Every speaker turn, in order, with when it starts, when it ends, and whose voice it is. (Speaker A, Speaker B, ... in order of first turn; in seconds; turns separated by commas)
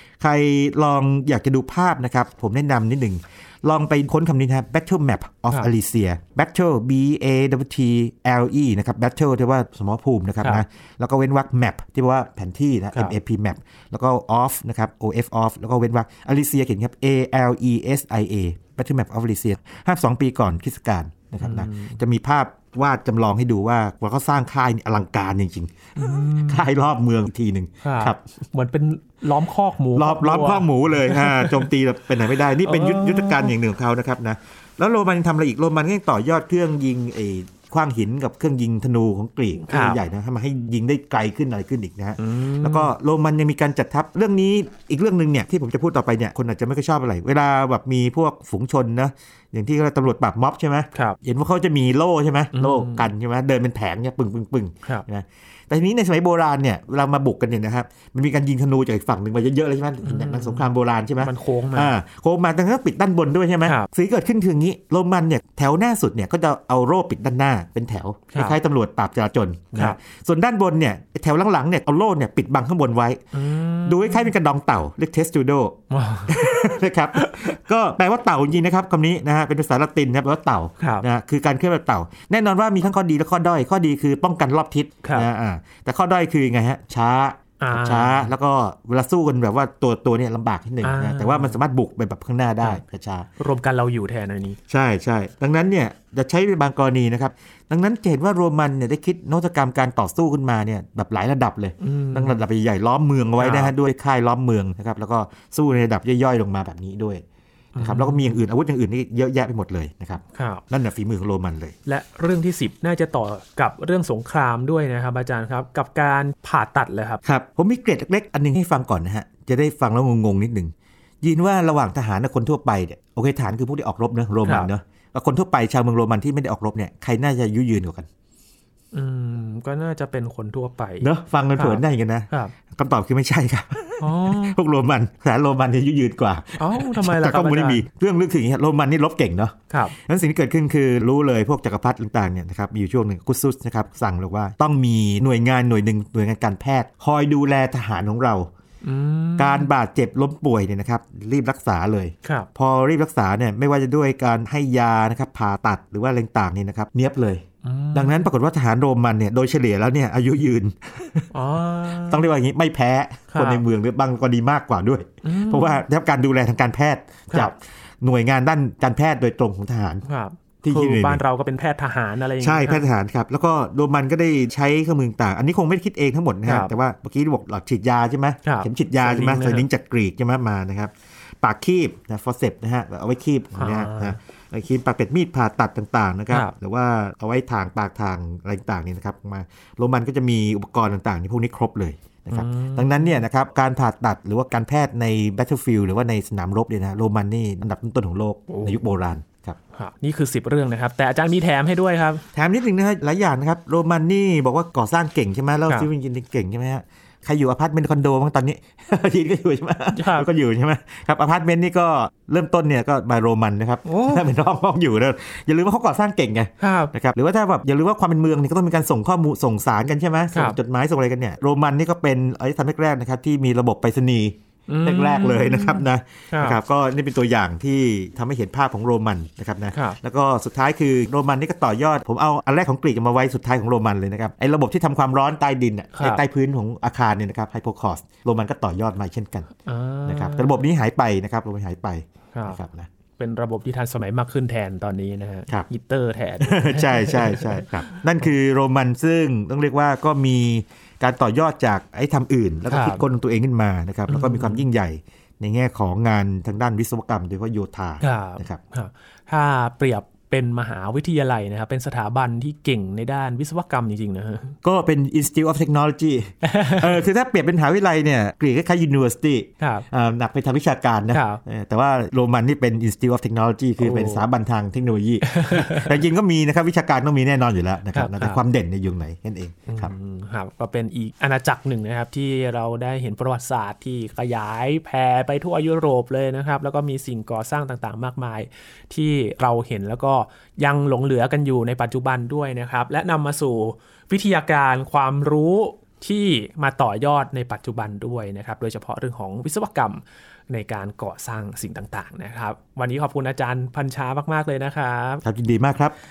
Speaker A: 0.2-28.2, Speaker B: 21.4-22.0, Speaker B: 25.9-26.7, Speaker B: 27.8-31.7, Speaker A: 29.9-73.2, Speaker B: 32.5-33.5, Speaker B: 39.7-40.0, Speaker B: 42.2-42.9, Speaker B: 52.5-53.1, Speaker B: 60.0-60.7, Speaker B: 61.2-61.9, Speaker B: 68.3-68.6, Speaker B: 73.3-74.3, Speaker A: 73.8-93.3, Speaker B: 75.9-76.6, Speaker B: 77.2-77.5, Speaker B: 80.8-81.0, Speaker B: 85.0-85.3, Speaker B: 87.6-88.3, Speaker B: 90.8-91.6, Speaker B: 93.4-94.6, Speaker A: 94.7-107.2, Speaker B: 101.8-102.4, Speaker B: 103.4-103.7, Speaker B: 107.8-108.3, Speaker A: 107.8-111.7, Speaker B: 110.3-110.6, Speaker B: 111.8-117.2, Speaker A: 117.2-128.1, Speaker B: 128.9-132.5, Speaker A: 131.0-148.5, Speaker B: 134.0-134.6, Speaker B: 136.6-137.8, Speaker B: 139.7-139.9, Speaker B: 148.8-149.7, Speaker A: 149.4-161.3, Speaker B: 152.2-152.5, Speaker B: 157.6-158.3, Speaker B: 161.3-162.2, Speaker A: 161.9-170.0, Speaker B: 163.3-163.6, Speaker B: 165.2-165.8, Speaker B: 170.0-172.8, Speaker A: 170.6-171.2, Speaker A: 172.4-199.6, Speaker B: 176.4-176.7, Speaker B: 178.4-179.7, Speaker B: 183.6-184.2, Speaker B: 192.3-193.2, Speaker B: 198.5-198.8, Speaker B: 199.7-202.2, Speaker A: 202.3-239.5, Speaker B: 209.9-210.3, Speaker B: 213.8-214.2, Speaker B: 216.6-216.9, Speaker B: 220.3-220.6, Speaker B: 224.7-226.6, Speaker B: 229.7-230.0, Speaker B: 235.9-236.2, Speaker B: 239.6-240.6, Speaker A: 240.1-242.9, Speaker B: 242.3-242.6, Speaker B: 243.2-247.7, Speaker A: 246.4-258.6, Speaker B: 252.7-253.0, Speaker B: 254.1-254.7, Speaker B: 258.0-264.6, Speaker A: 264.6-279.9, Speaker B: 266.4-267.0, Speaker B: 269.6-269.9, Speaker B: 271.1-271.4, Speaker B: 273.8-274.2, Speaker B: 275.2-276.0, Speaker B: 277.9-278.4, Speaker B: 279.7-305.2, Speaker A: 305.2-305.9